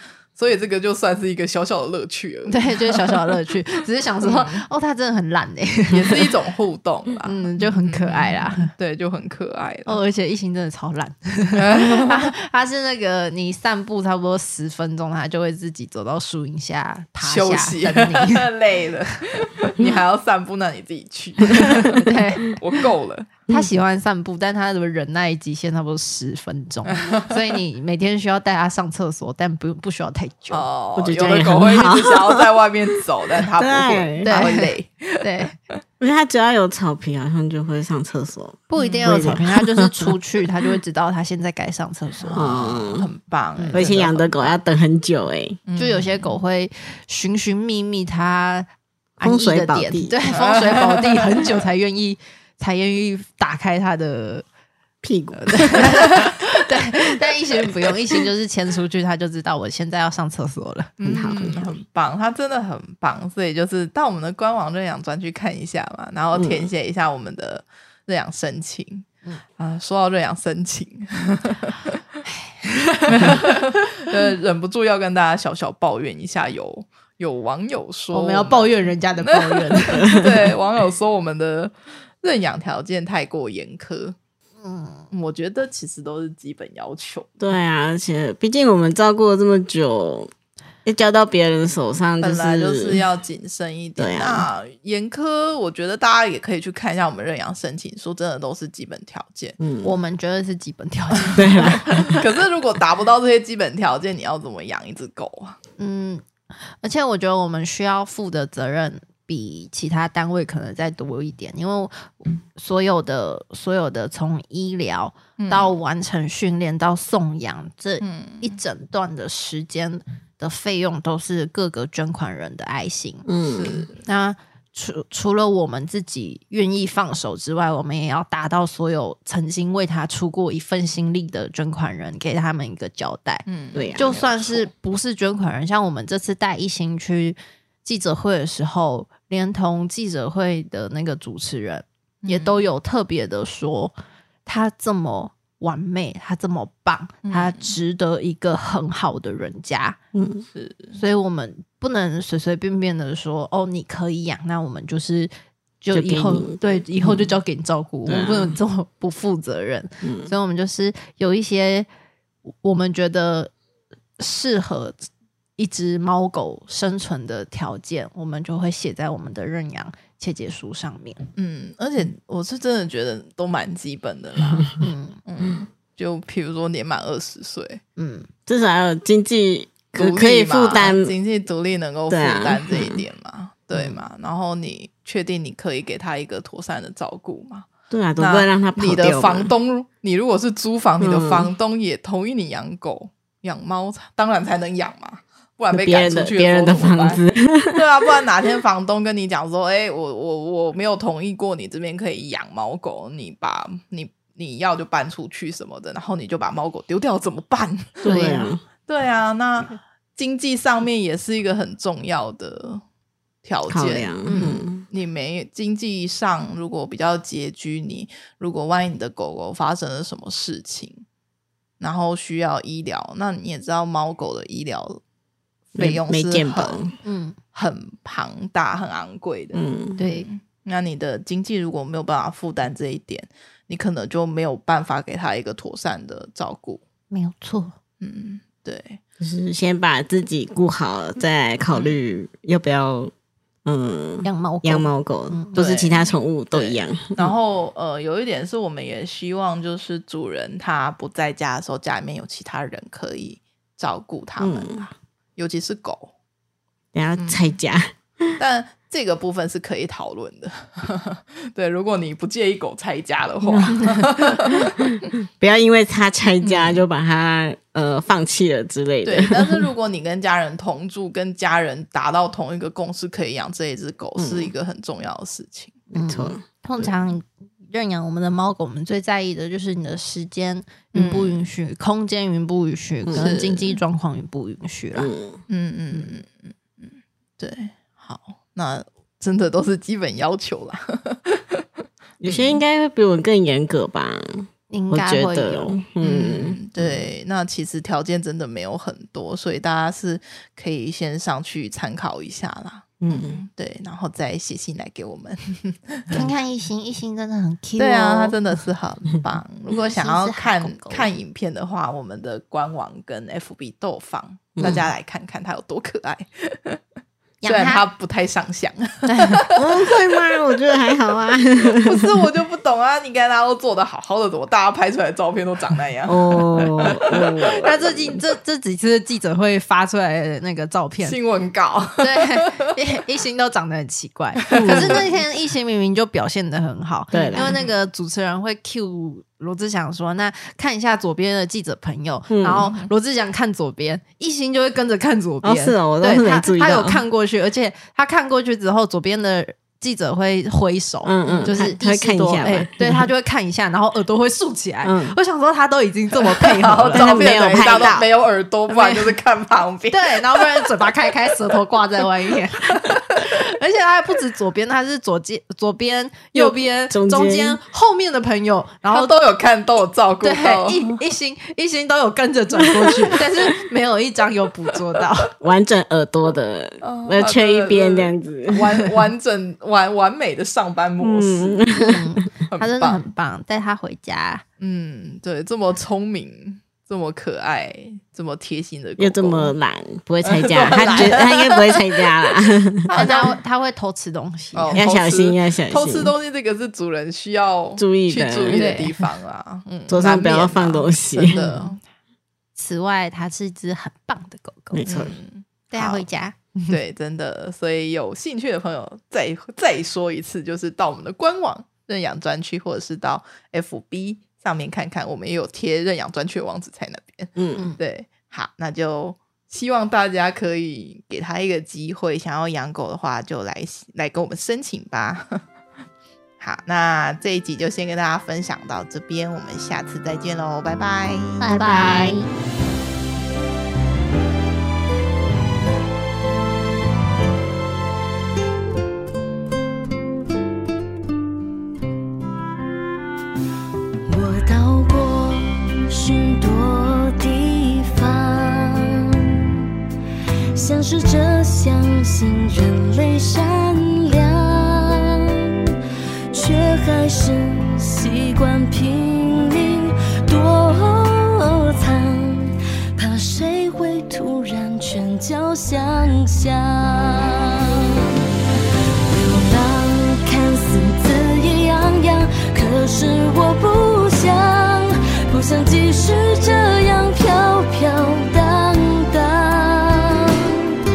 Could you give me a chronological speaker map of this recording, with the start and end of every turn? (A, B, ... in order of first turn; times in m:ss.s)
0:00.3-0:03.4 A
0:02.5-0:06.3 B
0:04.2-0:04.6 A
0:05.9-0:10.0 A
0:07.2-0:08.7 B
0:09.8-0:18.5 B
0:11.6-0:12.3 A
0:17.2-0:23.3 A
0:21.8-0:22.5 B
0:23.5-0:30.6 B
0:26.9-0:27.4 A
0:30.5-0:35.3 A
0:31.0-0:32.4 C
0:33.6-0:34.3 C
0:34.2-0:35.5 B
0:36.0-0:40.2 C
0:38.7-0:42.5 B
0:38.8-0:39.1 A
0:42.2-0:44.5 A
0:42.3-0:43.1 C
0:43.6-0:43.8 B
0:43.7-0:45.6 C
0:45.6-0:46.3 A
0:45.8-0:54.4 B
0:49.2-0:50.2 C
0:50.3-0:51.5 A
0:55.0-0:56.2 C
0:55.3-1:01.0 B
0:56.0-0:56.3 A
1:01.0-1:09.0 A
1:01.0-1:01.7 C
1:06.3-1:06.7 C
1:09.6-1:12.0 A
1:12.6-1:13.5 B
1:13.0-1:24.1 A
1:18.1-1:20.2 B
1:24.6-1:25.1 B
1:25.1-1:27.3 A
1:27.4-1:30.3 C
1:30.8-1:33.0 C
1:32.2-1:39.6 A
1:34.0-1:34.5 C
1:39.6-1:39.9 C
1:39.8-1:42.2 B
1:41.4-1:42.0 C
1:42.0-1:45.6 A
1:45.8-2:03.2 B
1:55.4-1:55.7 A
1:58.0-1:58.5 A
2:03.2-2:03.8 C
2:03.5-2:04.0 A
2:04.0-2:23.9 B
2:13.4-2:14.7 A
2:13.7-2:14.2 C
2:22.2-2:22.6 A
2:24.4-2:30.0 B
2:27.2-2:27.8 A
2:30.1-2:30.4 C
2:30.5-2:31.0 A
2:30.9-2:35.3 B
2:35.8-2:41.9 B
2:35.9-2:37.3 C
2:38.1-2:38.6 C
2:40.0-2:40.3 C
2:42.6-2:43.5 B
2:44.2-2:45.0 B
2:45.6-2:51.2 B
2:51.4-2:57.8 A
2:54.8-2:55.2 B
2:58.0-2:58.3 B
2:58.5-3:01.1 C
3:00.0-3:07.7 A
3:02.1-3:03.0 C
3:07.9-3:09.5 C
3:08.2-3:17.2 A
3:11.0-3:11.5 C
3:15.7-3:17.8 C
3:17.7-3:32.8 A
3:28.0-3:28.6 C
3:28.0-3:28.5 B
3:33.4-3:41.0 A
3:33.7-3:34.8 C
3:34.2-3:34.6 B
3:41.8-3:45.0 A
3:45.7-3:47.0 A
3:45.8-3:46.9 C
3:47.0-3:47.4 B
3:47.5-3:56.8 A
3:49.5-3:50.0 C
3:50.0-3:50.3 B
3:57.1-3:57.7 B
3:58.0-3:59.0 A
3:59.2-4:03.1 C
4:03.6-4:07.3 C
4:04.2-4:05.6 B
4:05.6-4:16.1 A
4:14.4-4:14.8 C
4:16.9-4:18.3 C
4:17.2-4:17.4 A
4:18.4-4:24.9 A
4:23.5-4:23.7 C
4:23.7-4:24.1 B
4:24.9-4:29.7 C
4:26.4-4:26.8 A
4:29.0-4:35.8 A
4:34.2-4:34.5 C
4:35.9-4:36.9 C
4:35.9-4:45.1 B
4:40.9-4:41.4 A
4:43.0-4:43.3 C
4:43.1-4:43.8 A
4:44.9-4:45.4 C
4:45.5-4:51.6 A
4:52.2-4:56.6 C
4:52.2-4:52.6 A
4:54.7-4:55.8 B
4:56.0-5:06.3 A
5:03.0-5:03.4 C
5:06.1-5:08.4 B
5:07.8-5:16.8 A
5:09.7-5:11.1 B
5:14.6-5:14.9 C
5:17.4-5:17.8 B
5:17.4-5:19.9 A
5:19.0-5:19.4 B
5:19.5-5:22.1 C
5:21.8-5:27.9 A
5:26.1-5:27.8 C
5:27.6-5:31.2 B
5:31.0-5:32.7 A
5:32.0-5:58.0 B
5:34.4-5:35.0 A
5:34.5-5:35.1 C
5:37.1-5:37.6 C
5:37.2-5:37.7 A
5:42.3-5:42.7 C
5:42.6-5:42.9 A
5:45.4-5:47.0 C
5:51.0-5:53.1 C
5:51.2-5:51.6 A
5:54.8-5:55.2 C
5:56.4-6:00.9 A
5:56.9-5:58.0 C
5:58.7-5:59.2 B
5:59.9-6:09.1 B
6:02.7-6:03.3 A
6:06.3-6:07.6 C
6:08.9-6:11.0 A
6:10.2-6:15.3 B
6:12.6-6:13.3 C
6:15.4-6:18.9 C
6:16.8-6:21.9 A
6:21.0-6:22.2 C
6:21.8-6:24.4 B
6:22.5-6:23.0 A
6:24.6-6:29.5 A
6:29.0-6:33.0 C
6:30.2-6:32.0 A
6:30.7-6:31.2 B
6:32.9-6:33.3 A
6:32.9-6:34.8 B
6:34.5-6:41.8 A
6:34.7-6:36.1 C
6:37.8-6:38.8 C
6:38.6-6:38.9 B
6:39.9-6:41.4 C
6:41.3-6:41.7 B
6:42.6-6:44.8 B
6:44.7-6:45.1 C
6:44.9-6:46.0 A
6:45.7-6:46.7 B
6:46.7-7:05.4 A
6:57.4-6:57.6 C
7:06.4-7:12.2 A
7:11.4-7:12.3 B
7:24.0-7:29.6 D
7:30.5-7:35.7 D
7:36.3-7:48.2 D
7:49.1-8:00.8 D